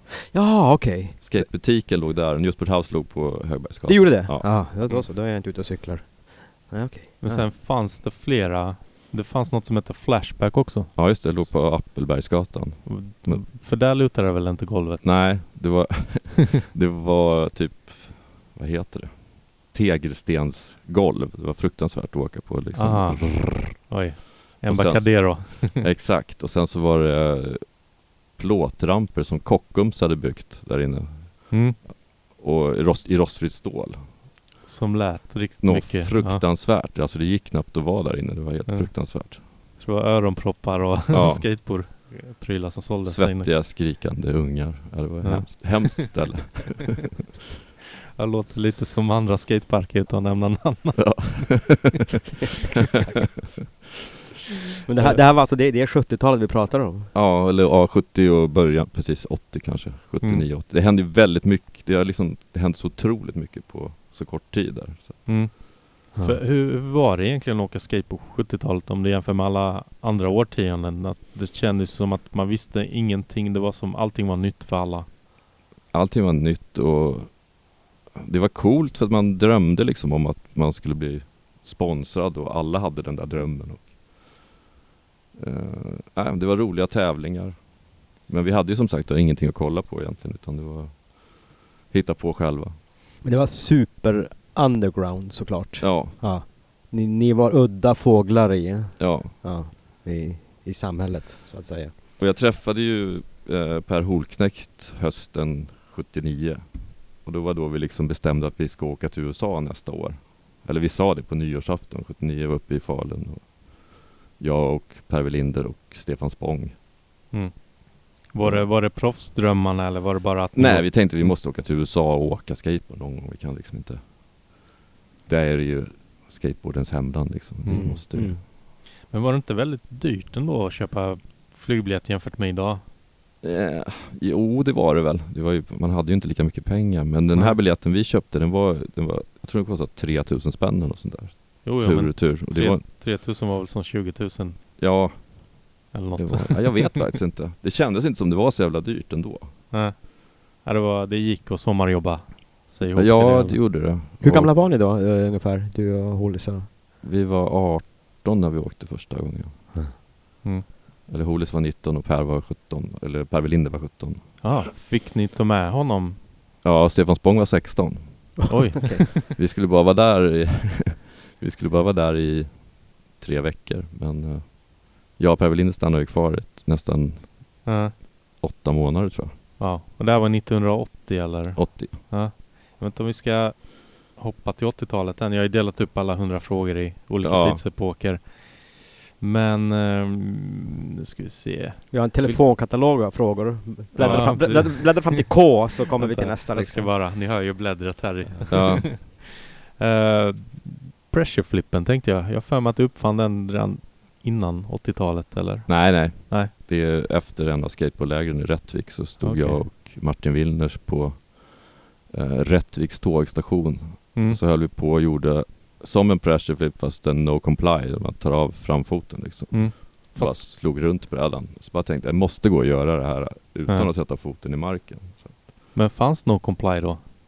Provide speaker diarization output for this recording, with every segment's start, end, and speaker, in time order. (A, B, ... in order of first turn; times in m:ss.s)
0:00.3-0:01.4 A
0:01.2-0:05.0 B
0:03.8-0:07.4 A
0:07.2-0:11.5 C
0:11.0-0:13.4 B
0:12.8-0:15.7 C
0:15.0-0:24.0 B
0:22.7-0:25.8 C
0:24.6-0:31.6 B
0:31.5-0:31.8 C
0:32.3-0:34.0 B
0:34.6-0:36.4 C
0:35.6-0:39.4 B
0:38.7-0:43.5 C
0:41.1-0:41.5 B
0:43.0-0:47.1 B
0:45.2-0:46.1 C
0:48.2-0:51.9 C
0:51.0-0:52.1 B
0:54.8-0:57.1 A
0:57.1-1:05.3 B
1:00.2-1:00.4 C
1:05.2-1:15.1 C
1:15.9-1:17.5 B
1:18.1-1:24.0 B
1:25.4-1:27.7 B
1:28.2-1:32.8 B
1:33.2-1:41.9 A
1:35.8-1:36.2 B
1:39.0-1:39.3 B
1:42.2-1:56.8 B
1:57.3-2:01.3 C
1:58.4-1:58.7 B
2:00.5-2:04.0 B
2:05.3-2:08.4 B
2:07.6-2:12.8 C
2:07.7-2:08.4 A
2:13.4-2:22.8 B
2:17.3-2:17.6 C
2:21.6-2:24.6 C
2:24.8-2:29.5 B
2:25.9-2:27.0 C
2:29.7-2:33.6 C
2:33.0-2:34.5 B
2:34.2-2:36.7 A
2:37.0-2:39.7 B
2:41.1-2:44.4 B
2:44.4-2:46.2 C
2:46.6-2:48.5 B
2:48.4-2:49.1 A
2:48.5-2:49.3 C
2:49.3-2:57.6 B
2:57.6-2:57.9 C
2:58.4-2:59.3 B
2:59.6-3:12.4 C
3:01.5-3:02.0 B
3:07.2-3:07.6 B
3:11.9-3:16.9 A
3:14.0-3:14.7 B
3:14.0-3:26.5 C
3:18.5-3:18.9 B
3:25.7-3:45.5 B
3:29.2-3:29.7 C
3:34.1-3:34.4 C
3:39.5-3:40.4 C
3:45.7-3:47.0 C